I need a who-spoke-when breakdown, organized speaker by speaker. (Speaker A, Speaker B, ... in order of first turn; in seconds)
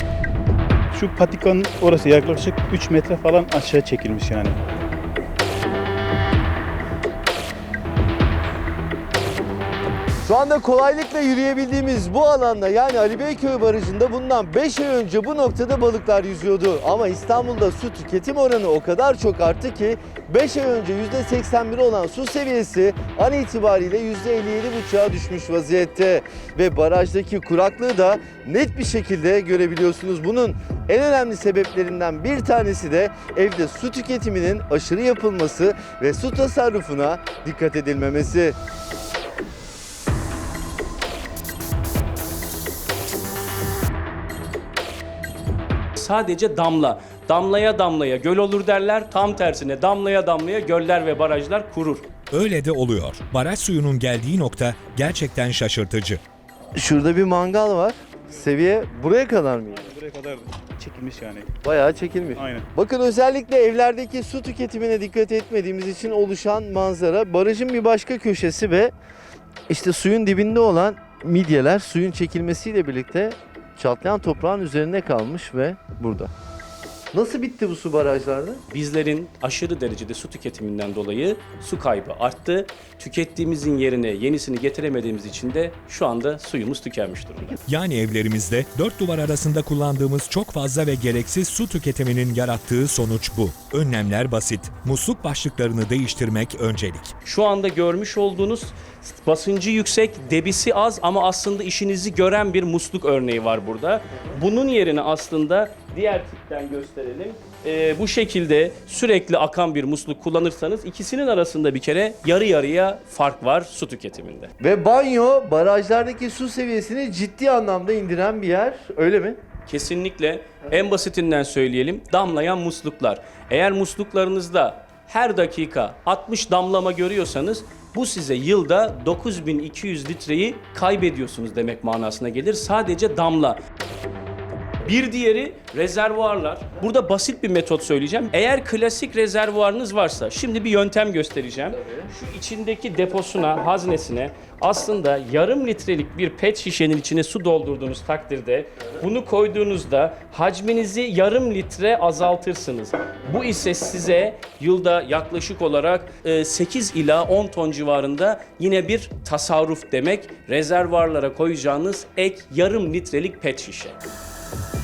Speaker A: 0.9-4.6, 59.7-61.5, 62.4-62.7
Speaker B: 10.2-38.6, 56.8-59.9, 61.6-68.9, 69.7-76.3, 77.1-78.6, 114.6-119.4
Speaker C: 46.0-52.1, 78.7-87.6, 97.2-114.5, 119.7-133.6, 134.8-164.0
Speaker D: 52.3-56.2, 87.6-97.1